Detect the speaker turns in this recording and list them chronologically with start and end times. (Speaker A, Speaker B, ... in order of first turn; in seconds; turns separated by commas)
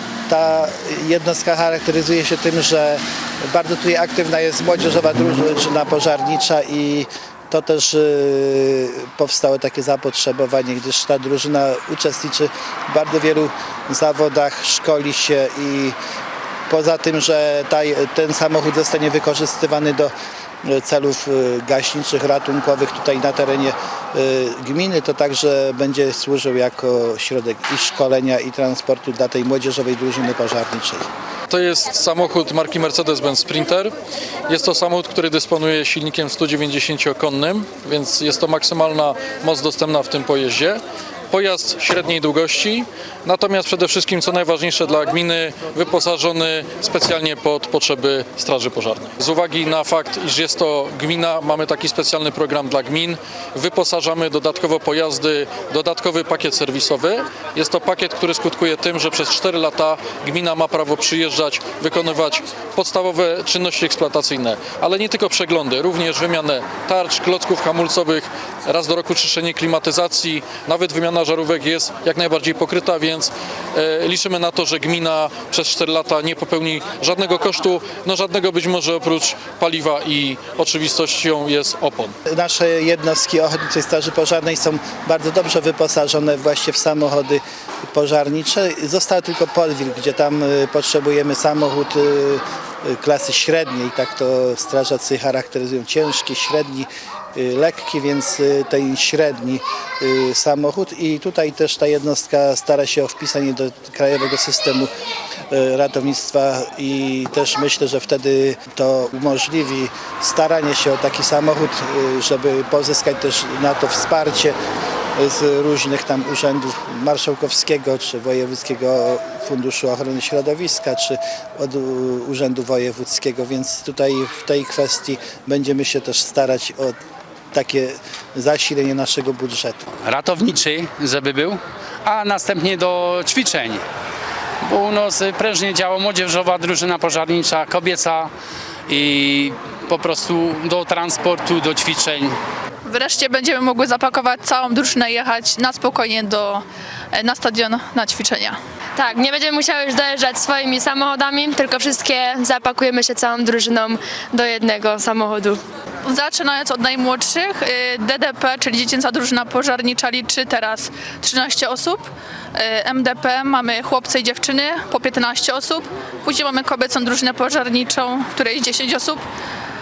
Speaker A: 0.3-15.9, Speaker A: 16.7-20.1, Speaker A: 20.6-31.1, Speaker B: 31.5-33.9, Speaker B: 34.5-82.1, Speaker A: 82.3-104.9, Speaker A: 105.5-114.5, Speaker A: 115.2-127.0, Speaker A: 127.5-129.8, Speaker C: 130.0-133.8, Speaker C: 134.6-138.3, Speaker C: 138.9-142.4, Speaker D: 142.8-148.6, Speaker E: 148.9-155.6, Speaker D: 156.0-169.2